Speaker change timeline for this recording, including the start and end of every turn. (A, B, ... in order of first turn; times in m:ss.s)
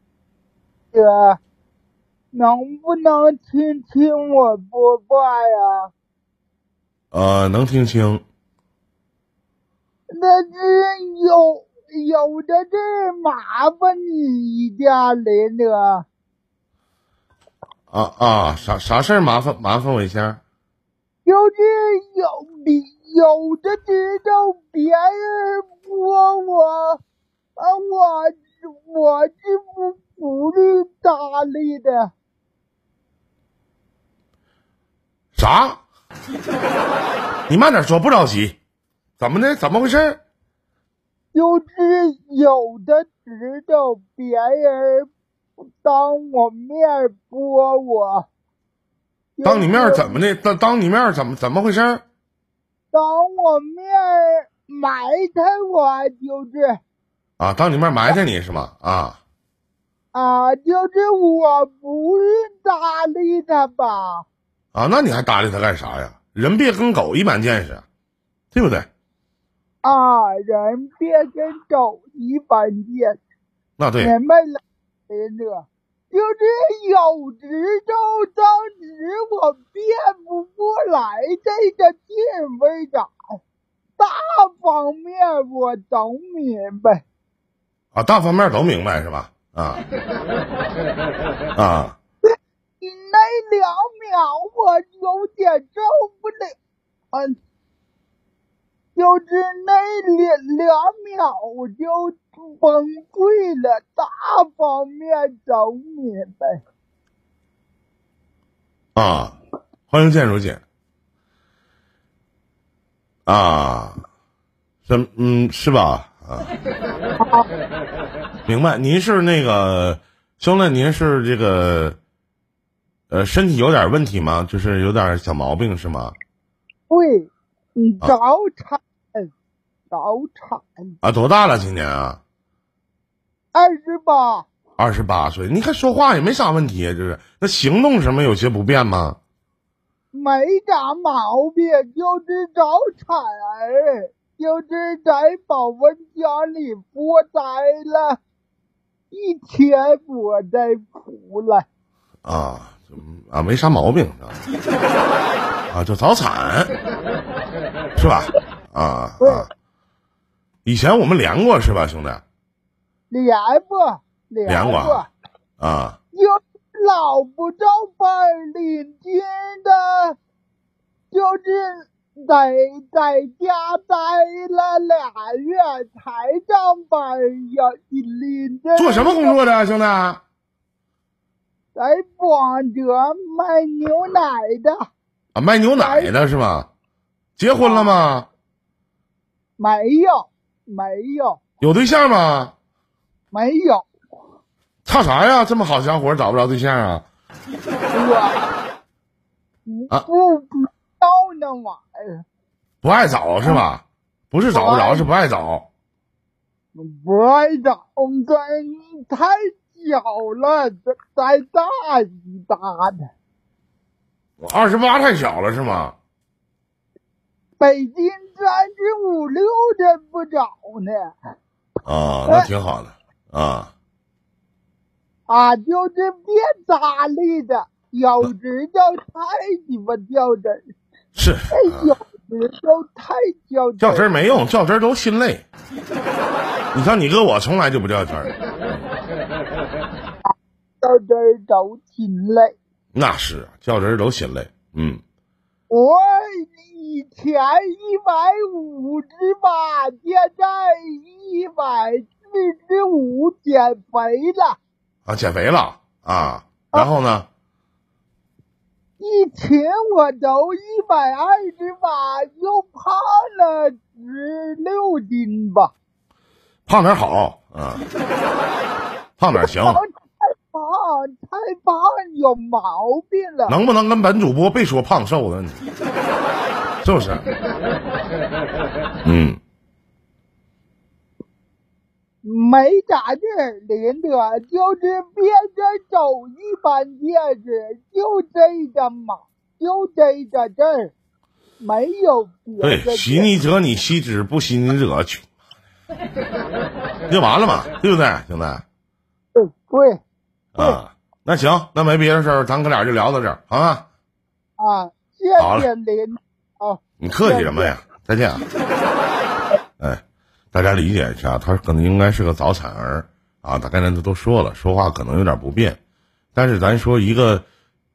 0:00.9-0:01.4 A
0:02.3-0:05.9 A
0:07.1-0:08.2 B
0:10.1-0:16.0 A
0:17.9-0:20.4 B
0:21.2-0:27.0 A
0:27.6-0:32.1 A
0:35.3-0:35.8 B
0:37.5-0:38.6 B
0:39.2-0:40.2 B
0:41.3-0:45.1 A
0:45.8-0:48.2 A
0:49.4-0:50.2 A
0:49.4-0:52.0 B
0:52.9-0:56.8 A
0:57.4-0:59.2 B
1:00.1-1:04.2 A
1:04.7-1:07.8 B
1:08.5-1:08.9 B
1:09.8-1:13.2 A
1:13.8-1:14.1 B
1:14.0-1:23.1 A
1:24.0-1:27.0 A
1:27.9-1:29.8 B
1:31.6-1:32.0 B
1:32.8-1:36.6 A
1:37.1-1:37.4 A
1:39.0-1:46.6 A
1:49.0-1:49.3 B
1:49.9-1:50.6 B
1:53.2-1:54.0 B
1:54.9-1:56.5 B
1:57.2-1:57.4 A
1:58.4-2:02.0 B
2:03.1-2:06.2 B
2:06.9-2:09.3 A
2:09.9-2:10.9 A
2:11.0-2:12.2 B
2:13.5-2:14.5 A
2:14.8-2:19.2 B
2:20.1-2:28.2 A
2:29.1-2:31.7 A
2:32.2-2:34.4 B
2:35.7-2:36.7 B
2:38.0-2:39.5 B
2:39.2-2:39.5 A
2:40.6-2:42.2 B
2:43.1-2:45.1 A
2:44.4-2:45.1 B
2:45.6-2:46.0 B
2:46.1-2:50.2 A
2:51.1-2:59.4 A
2:58.8-3:00.2 B
3:01.8-3:04.8 A
3:05.3-3:06.7 B
3:05.8-3:06.1 A
3:07.4-3:08.3 B
3:07.6-3:08.0 A
3:09.6-3:11.4 A
3:11.6-3:12.5 B
3:13.3-3:13.9 A
3:14.8-3:17.0 B
3:17.9-3:18.5 A
3:19.7-3:22.2 A
3:22.8-3:25.7 B
3:24.5-3:25.1 A
3:26.8-3:33.1 A
3:34.4-3:35.9 B
3:37.6-3:41.1 A
3:41.8-3:43.7 B
3:45.3-3:50.6 A
3:51.2-3:51.9 B
3:51.5-3:54.1 A
3:53.8-3:55.4 B
3:56.7-3:58.8 B
4:00.8-4:02.6 A
4:02.9-4:05.0 B
4:05.7-4:14.6 A
4:15.0-4:17.3 B
4:19.0-4:25.7 A
4:26.6-4:27.8 B
4:29.2-4:29.8 B
4:29.3-4:33.6 A
4:33.5-4:35.6 B
4:36.8-4:37.2 B
4:39.0-4:39.4 B
4:42.2-4:50.9 A
4:51.6-4:53.3 A
4:52.6-4:55.2 B
4:57.1-4:58.6 B
4:59.3-5:00.0 A
5:00.6-5:03.9 B
5:04.6-5:07.8 A
5:05.4-5:05.7 B
5:07.0-5:08.4 B
5:09.8-5:15.8 B
5:16.3-5:17.4 B